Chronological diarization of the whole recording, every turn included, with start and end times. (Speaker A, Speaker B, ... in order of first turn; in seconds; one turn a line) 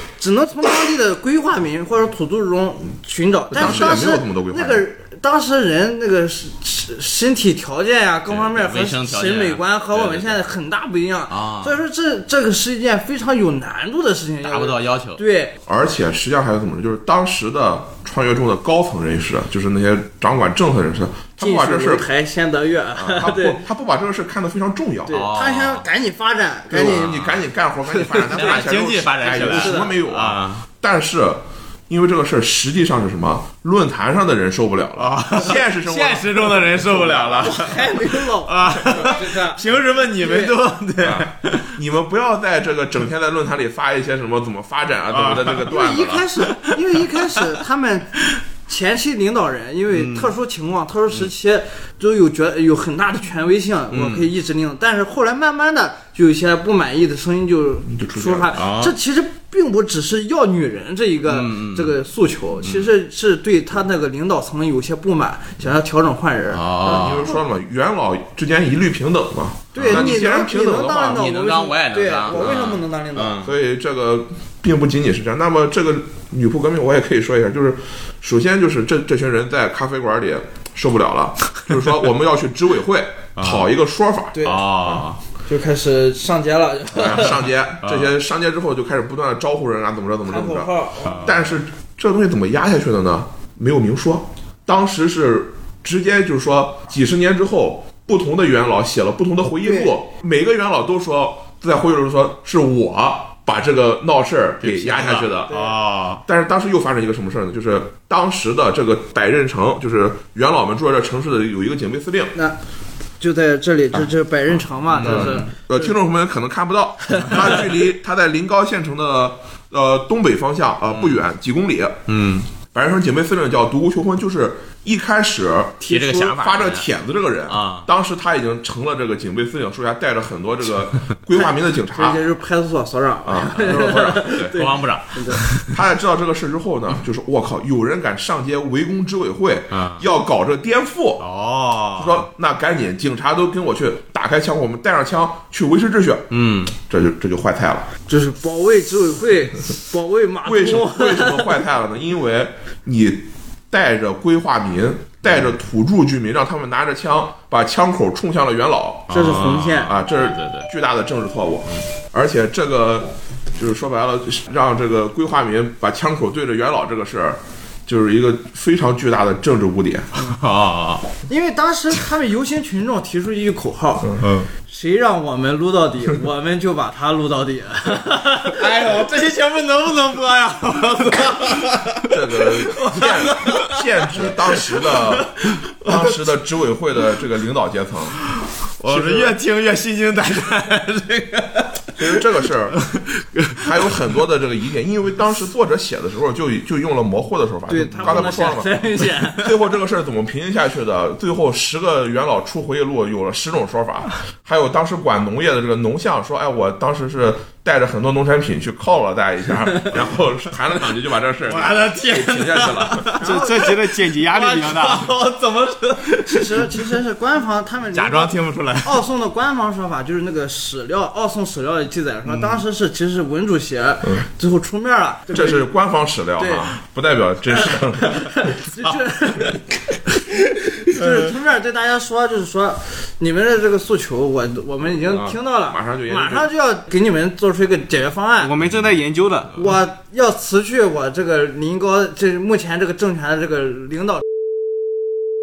Speaker A: 0.2-15.5
Speaker B: 3.5-4.8
Speaker C: 8.3-10.3
Speaker C: 11.3-11.8
Speaker C: 14.4-15.2
Speaker B: 15.7-22.1
Speaker A: 21.4-23.6
Speaker B: 22.9-25.2
Speaker A: 25.1-27.1
Speaker C: 25.1-25.8
Speaker B: 26.7-37.6
Speaker C: 26.8-27.4
Speaker C: 28.2-30.6
Speaker A: 29.2-29.9
Speaker C: 35.0-41.7
Speaker A: 37.4-40.6
Speaker B: 41.0-46.2
Speaker C: 45.1-47.5
Speaker A: 45.6-48.1
Speaker A: 48.6-67.4
Speaker C: 49.9-50.3
Speaker C: 53.9-54.3
Speaker B: 57.9-58.5
Speaker C: 58.5-58.9
Speaker C: 61.2-61.9
Speaker C: 62.6-62.9
Speaker C: 66.5-67.3
Speaker B: 66.8-71.3
Speaker A: 69.7-73.4
Speaker C: 69.7-70.2
Speaker C: 71.0-73.5
Speaker B: 73.4-85.0
Speaker C: 83.4-83.7
Speaker C: 84.4-85.2
Speaker A: 85.5-87.4
Speaker B: 86.9-105.6
Speaker C: 87.8-88.1
Speaker A: 90.2-91.3
Speaker C: 91.0-91.4
Speaker A: 99.6-99.9
Speaker C: 104.6-106.2
Speaker A: 105.5-105.7
Speaker B: 106.2-112.3
Speaker A: 113.2-115.9
Speaker C: 114.9-115.5
Speaker B: 115.0-122.0
Speaker A: 117.2-117.5
Speaker C: 120.9-121.2
Speaker C: 122.1-122.5
Speaker B: 122.7-132.2
Speaker C: 125.8-126.9
Speaker C: 127.5-127.9
Speaker A: 131.4-135.4
Speaker B: 133.2-134.5
Speaker C: 133.6-135.8
Speaker B: 135.6-141.2
Speaker C: 139.7-140.0
Speaker C: 141.2-142.2
Speaker B: 142.0-147.9
Speaker C: 146.3-146.7
Speaker A: 148.1-151.6
Speaker B: 150.4-170.1
Speaker C: 159.1-160.7
Speaker A: 159.1-159.9
Speaker C: 170.1-171.1
Speaker A: 171.3-178.6
Speaker C: 174.2-174.5
Speaker C: 178.4-186.3
Speaker B: 182.0-188.2
Speaker C: 188.2-192.0
Speaker B: 188.9-189.3
Speaker B: 192.0-192.8
Speaker B: 193.6-213.1
Speaker A: 197.7-199.5
Speaker C: 197.9-198.3
Speaker C: 211.4-216.9
Speaker A: 213.2-213.7
Speaker D: 213.2-215.1
Speaker A: 216.2-225.7
Speaker C: 217.9-219.0
Speaker C: 222.3-222.6
Speaker B: 225.3-228.3
Speaker A: 226.4-226.7
Speaker A: 227.6-238.5
Speaker B: 235.7-236.5
Speaker D: 238.4-239.6
Speaker C: 238.6-238.9
Speaker A: 239.5-244.2